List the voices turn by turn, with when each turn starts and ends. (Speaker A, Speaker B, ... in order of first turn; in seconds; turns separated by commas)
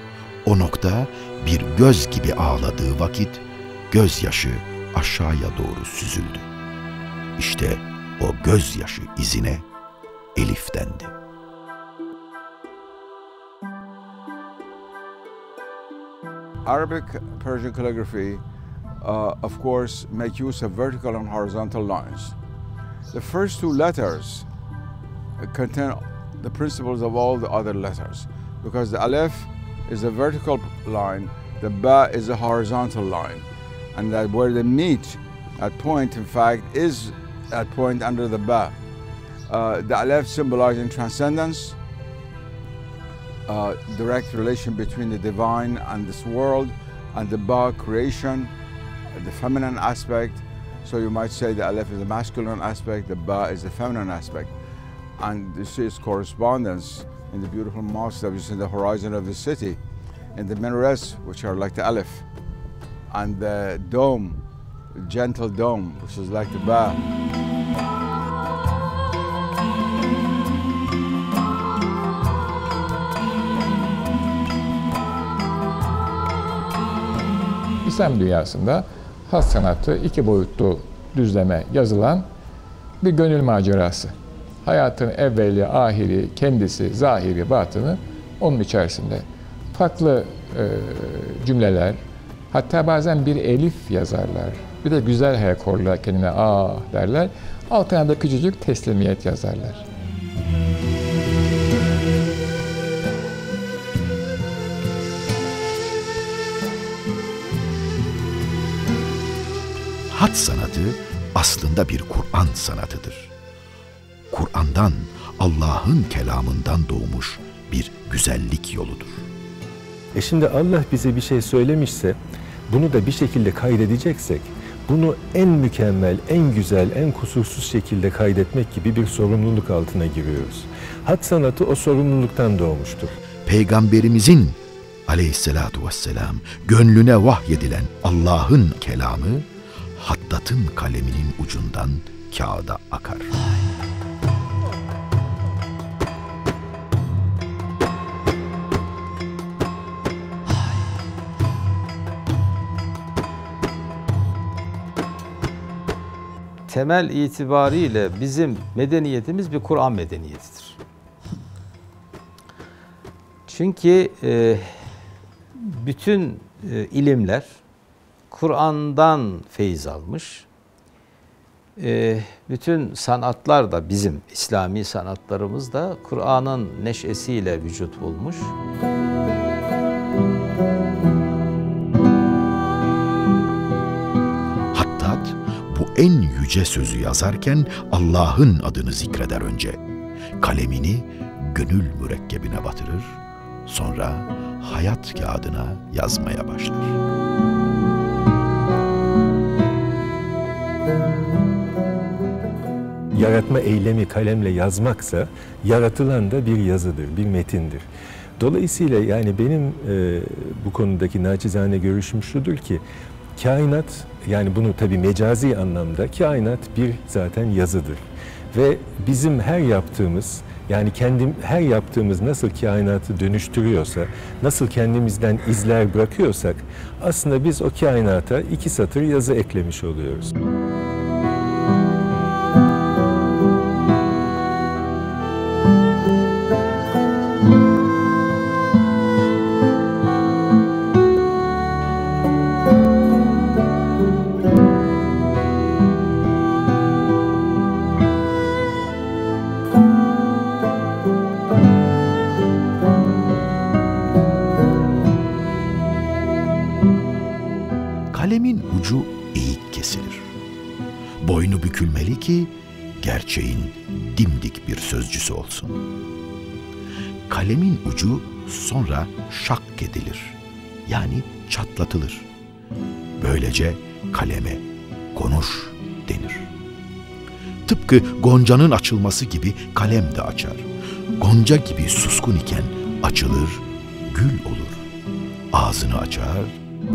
Speaker A: 0.5-6.5, Speaker A: 7.4-9.7, Speaker A: 10.4-11.2, Speaker B: 16.6-18.4, Speaker B: 19.0-22.4, Speaker B: 23.1-24.5, Speaker B: 25.4-38.8, Speaker B: 39.5-41.8, Speaker B: 43.5-48.5, Speaker B: 49.2-54.5, Speaker B: 55.2-59.8, Speaker B: 60.3-62.3, Speaker B: 63.1-67.0, Speaker C: 77.8-82.2, Speaker B: 79.3-79.8, Speaker B: 80.5-82.2, Speaker C: 83.0-84.1, Speaker B: 83.8-84.1, Speaker C: 84.7-92.0, Speaker B: 84.7-89.2, Speaker B: 89.8-91.9, Speaker C: 92.5-99.8, Speaker B: 92.6-97.2, Speaker B: 98.1-99.8, Speaker A: 110.1-113.3, Speaker A: 114.3-119.3, Speaker D: 120.1-122.2, Speaker D: 122.7-133.1, Speaker A: 133.5-143.3, Speaker E: 156.7-160.8, Speaker E: 163.5-164.8, Speaker E: 165.6-167.6, Speaker E: 168.3-170.5, Speaker E: 171.8-178.5, Speaker A: 184.8-189.8, Speaker A: 190.4-197.0, Speaker D: 203.1-207.9, Speaker D: 208.4-212.8, Speaker D: 213.4-230.3, Speaker A: 258.1-260.3, Speaker A: 261.2-265.8, Speaker A: 267.3-272.3, Speaker A: 273.2-274.6, Speaker A: 275.1-276.5, Speaker A: 277.7-280.7, Speaker A: 281.2-284.9, Speaker A: 285.5-286.6